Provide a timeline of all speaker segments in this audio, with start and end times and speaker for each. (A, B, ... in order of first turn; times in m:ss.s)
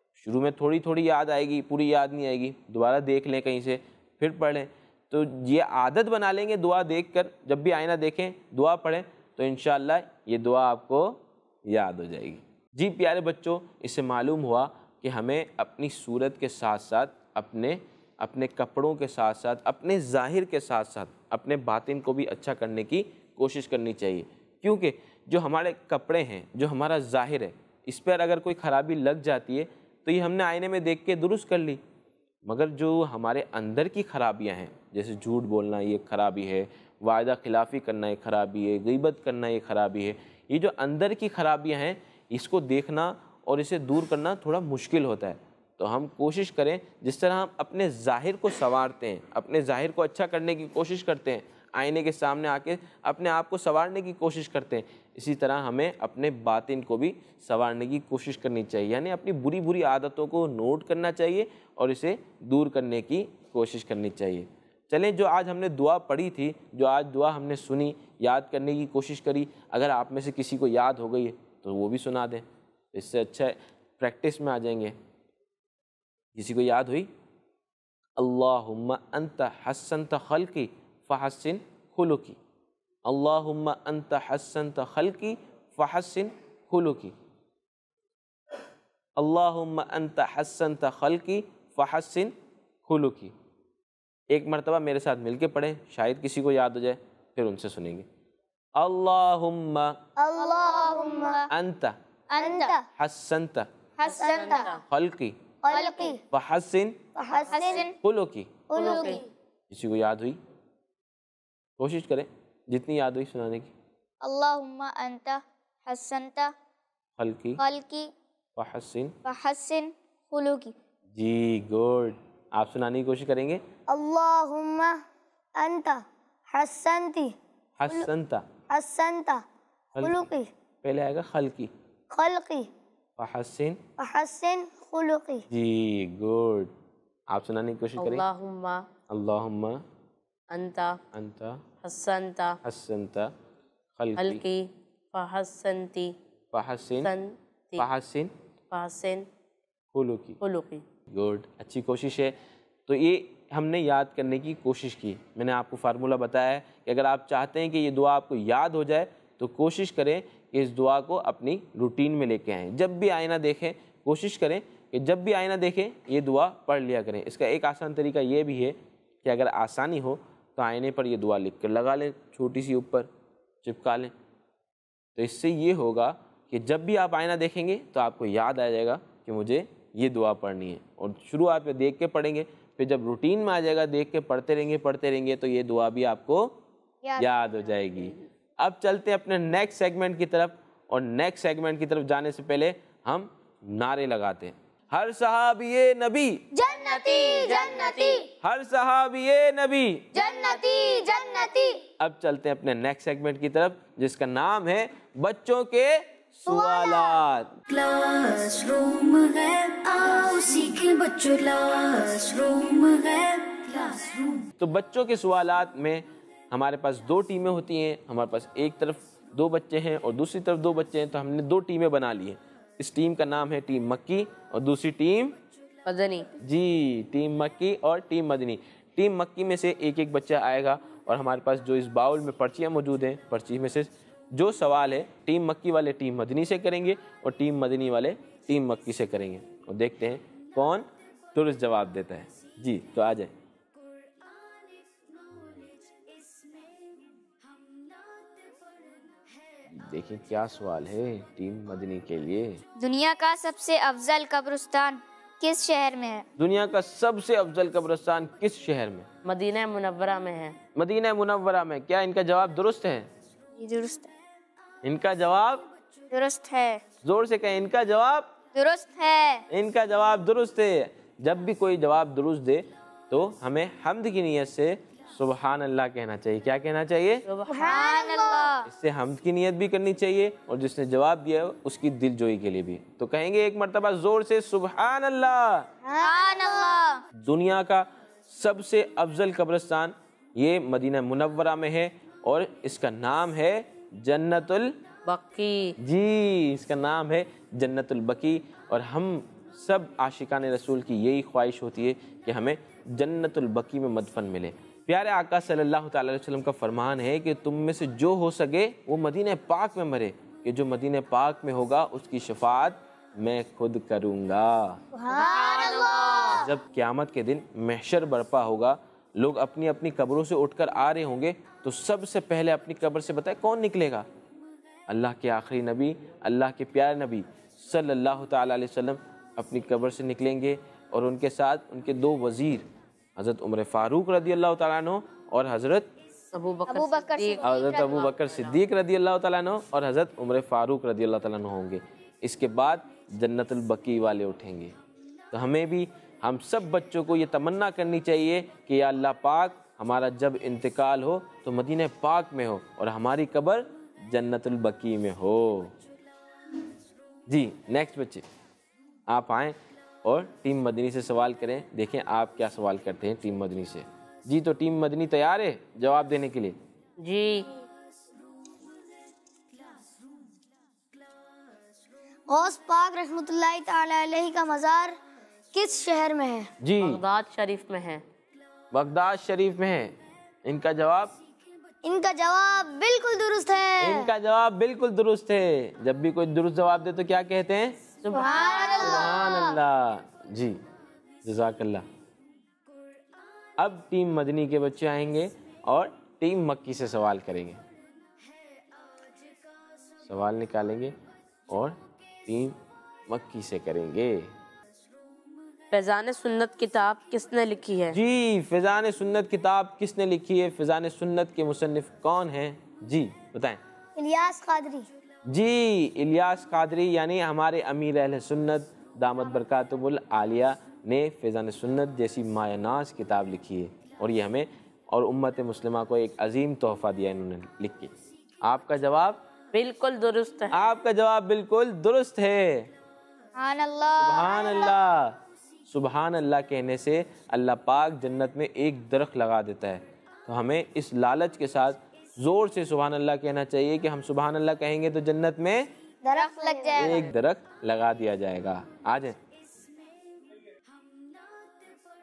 0:00.2-0:31.8 A
0:32.4-1:15.0 A
1:16.4-1:17.1 A
1:18.2-1:22.4 A
1:23.1-1:27.2 A
1:29.2-1:32.3 A
1:32.9-1:33.3 A
1:34.3-1:38.1 A
1:38.8-1:40.0 A
1:40.2-1:41.4 B
1:40.4-1:41.5 C
1:41.5-1:42.0 A
1:42.3-1:42.8 C
1:42.4-1:42.8 B
1:43.0-1:43.7 A
1:44.0-1:44.7 C
1:44.1-1:44.7 B
1:44.1-1:44.8 D
1:44.9-1:45.4 A
1:45.6-1:46.2 B
1:45.7-1:46.2 C
1:46.3-1:47.0 A
1:47.2-1:47.9 B
1:47.5-1:48.0 C
1:48.0-1:48.6 A
1:48.7-1:49.3 B
1:48.8-1:49.2 D
1:49.7-1:50.4 A
1:51.8-1:53.7 A
1:54.2-1:56.5 C
1:57.2-1:57.6 A
1:57.6-1:58.1 C
1:58.6-1:59.2 A
1:59.2-2:00.7 C
2:01.1-2:03.6 A
2:03.9-2:05.0 B
2:05.6-2:07.4 B
2:07.8-2:08.5 A
2:08.7-2:09.4 B
2:10.0-2:10.3 A
2:10.0-2:10.5 B
2:10.8-2:11.7 A
2:12.1-2:12.7 B
2:13.2-2:13.8 A
2:14.0-2:15.4 B
2:15.5-2:16.7 A
2:17.3-2:18.2 A
2:18.0-2:18.8 D
2:19.1-2:19.8 A
2:20.5-2:21.0 D
2:21.1-2:21.6 A
2:21.8-2:22.6 D
2:22.6-2:23.3 A
2:24.0-2:24.4 A
2:24.2-2:26.1 D
2:26.5-2:27.1 A
2:27.0-2:27.9 D
2:27.8-2:28.3 A
2:28.7-2:29.3 D
2:29.9-2:30.4 A
2:30.4-2:30.8 D
2:31.1-2:32.4 A
2:32.9-2:53.1 A
2:53.6-2:54.1 A
2:55.2-3:06.6 A
3:07.2-3:16.5 A
3:16.6-3:18.2 B
3:16.9-3:18.2 C
3:16.9-3:18.2 D
3:18.4-3:20.1 A
3:20.2-3:21.7 C
3:20.2-3:21.5 B
3:22.0-3:27.5 A
3:26.5-3:26.9 B
3:27.7-3:34.5 E
3:34.6-3:45.4 A
3:45.9-3:46.3 D
3:46.4-4:03.3 A
4:09.7-4:12.6 A
4:12.8-4:16.2 C
4:16.4-4:19.1 A
4:19.2-4:20.6 D
4:20.8-4:23.1 A
4:23.6-4:24.1 C
4:24.8-4:25.7 A
4:26.1-4:26.8 C
4:27.0-4:28.4 A
4:28.6-4:29.4 C
4:29.5-4:37.2 A
4:37.3-4:37.8 D
4:37.5-4:38.5 B
4:37.6-4:38.7 C
4:38.6-4:45.7 A
4:45.8-4:46.7 B
4:46.0-4:47.0 C
4:47.2-4:54.8 A
4:55.1-4:55.8 D
4:55.8-5:14.8 A
5:14.9-5:16.5 B
5:15.1-5:16.4 D
5:15.5-5:16.0 C
5:16.3-5:24.1 A
5:24.9-5:35.9 A
5:36.3-5:38.5 D
5:36.7-5:38.1 C
5:37.4-5:44.8 A
5:45.3-5:55.8 A
5:57.3-5:58.3 A
5:59.1-6:06.6 A
6:07.0-6:07.5 D
6:12.3-6:15.0 B
6:15.5-6:16.5 B
6:16.6-6:17.0 A
6:16.8-6:18.0 D
6:18.7-6:21.2 A
6:21.8-6:24.1 B
6:23.8-6:27.8 A
6:28.0-6:28.7 D
6:28.1-6:29.3 B
6:28.1-6:29.4 C
6:28.8-6:30.6 A
6:31.2-6:31.8 A
6:33.6-6:37.6 A
6:40.0-6:41.0 A
6:41.5-6:44.3 A
6:45.7-6:48.0 D
6:47.9-6:53.6 A
6:54.0-6:54.9 B
6:55.3-7:07.9 A
7:08.4-7:09.2 A
7:09.5-7:10.6 D
7:10.5-7:12.7 A
7:13.4-7:14.7 C
7:14.0-7:25.7 A
7:26.0-7:27.1 B
7:26.1-7:27.1 C
7:26.7-7:29.2 A